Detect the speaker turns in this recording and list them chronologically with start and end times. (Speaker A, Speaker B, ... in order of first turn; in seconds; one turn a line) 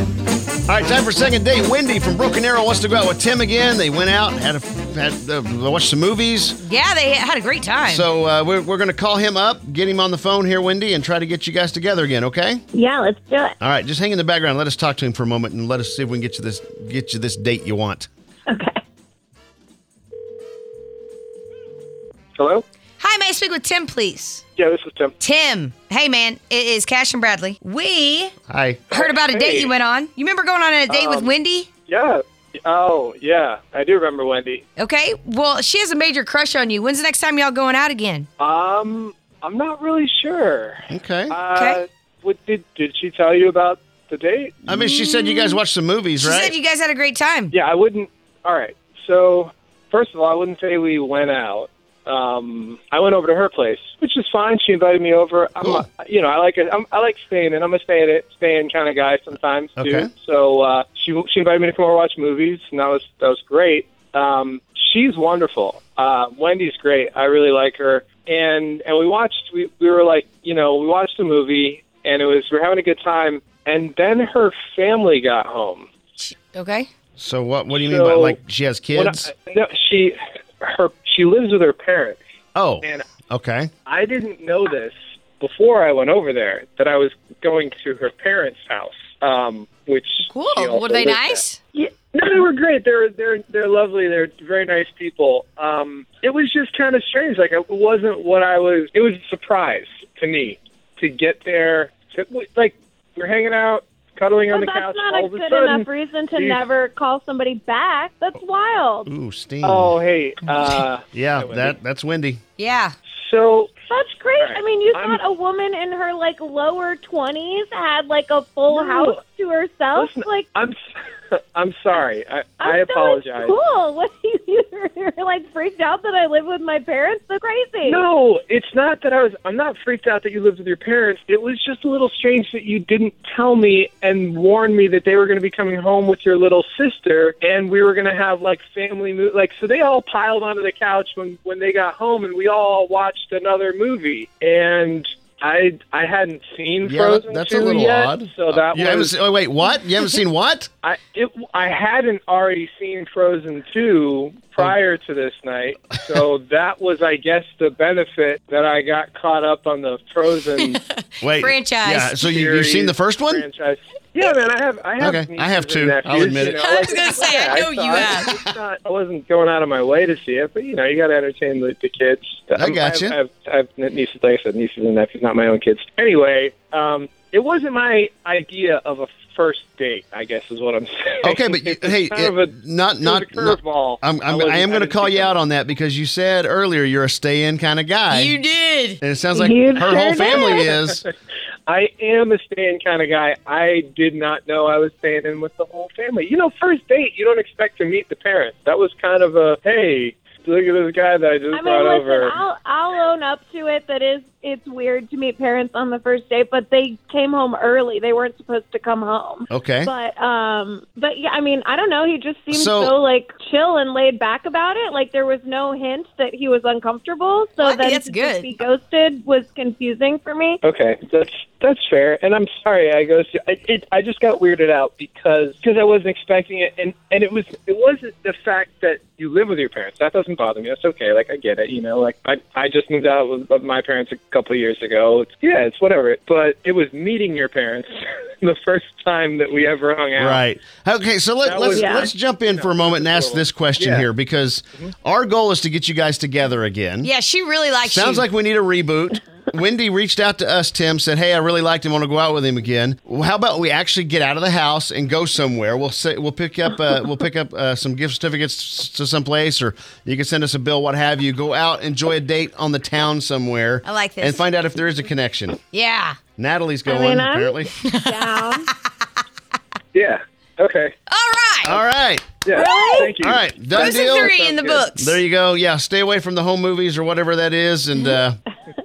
Speaker A: 0.7-6.6
Speaker B: 6.6-8.0
Speaker A: 7.9-12.6
Speaker C: 12.7-13.5
Speaker A: 13.6-18.1
Speaker C: 18.5-18.8
Speaker D: 22.4-22.6
Speaker B: 23.0-24.4
Speaker D: 24.6-25.2
Speaker B: 25.2-28.3
Speaker A: 28.5-28.9
Speaker D: 28.9-29.7
Speaker B: 28.9-31.7
Speaker D: 30.9-31.3
Speaker D: 31.9-34.6
Speaker B: 34.8-38.3
Speaker D: 38.4-44.5
Speaker A: 40.9-41.3
Speaker B: 41.5-41.8
Speaker A: 44.6-46.5
Speaker B: 44.7-45.6
Speaker B: 46.2-47.5
Speaker D: 47.5-75.9
Speaker A: 59.8-60.1
Speaker B: 76.2-76.9
Speaker A: 77.2-79.3
Speaker D: 77.7-78.4
Speaker D: 78.9-82.2
Speaker A: 82.5-83.7
Speaker D: 82.8-83.1
Speaker D: 83.8-106.6
Speaker B: 90.3-91.6
Speaker C: 104.5-109.1
Speaker A: 109.0-110.0
Speaker D: 109.6-111.8
Speaker A: 111.1-112.4
Speaker B: 112.6-112.9
Speaker D: 113.2-113.7
Speaker C: 113.9-120.5
Speaker D: 114.4-115.2
Speaker D: 118.7-119.2
Speaker D: 119.9-120.8
Speaker D: 121.3-123.5
Speaker C: 122.6-128.0
Speaker D: 127.8-149.1
Speaker A: 146.8-150.7
Speaker D: 150.8-160.8
Speaker B: 160.6-162.1
Speaker A: 161.2-163.4
Speaker D: 162.2-185.3
Speaker A: 165.0-166.6
Speaker B: 166.4-168.3
Speaker A: 172.6-173.2
Speaker A: 181.2-188.4
Speaker B: 188.1-189.0
Speaker A: 189.0-191.0
Speaker C: 189.3-190.7
Speaker D: 190.2-191.1
Speaker D: 191.7-202.4
Speaker C: 201.5-220.6
Speaker A: 209.5-209.9
Speaker A: 212.5-212.9
Speaker B: 217.6-218.5
Speaker D: 220.6-237.9
Speaker D: 238.4-240.4
Speaker A: 240.2-247.1
Speaker D: 241.4-244.1
Speaker C: 241.7-242.1
Speaker B: 247.0-248.2
Speaker A: 247.8-265.6
Speaker B: 263.8-264.4
Speaker B: 265.7-266.2
Speaker A: 266.4-267.7
Speaker C: 266.9-268.7
Speaker B: 267.8-268.7
Speaker D: 269.9-270.9
Speaker B: 271.1-271.8
Speaker A: 271.6-272.4
Speaker D: 272.4-274.9
Speaker C: 272.5-273.1
Speaker B: 272.6-273.1
Speaker A: 273.2-274.3
Speaker B: 273.7-275.2
Speaker A: 274.9-278.4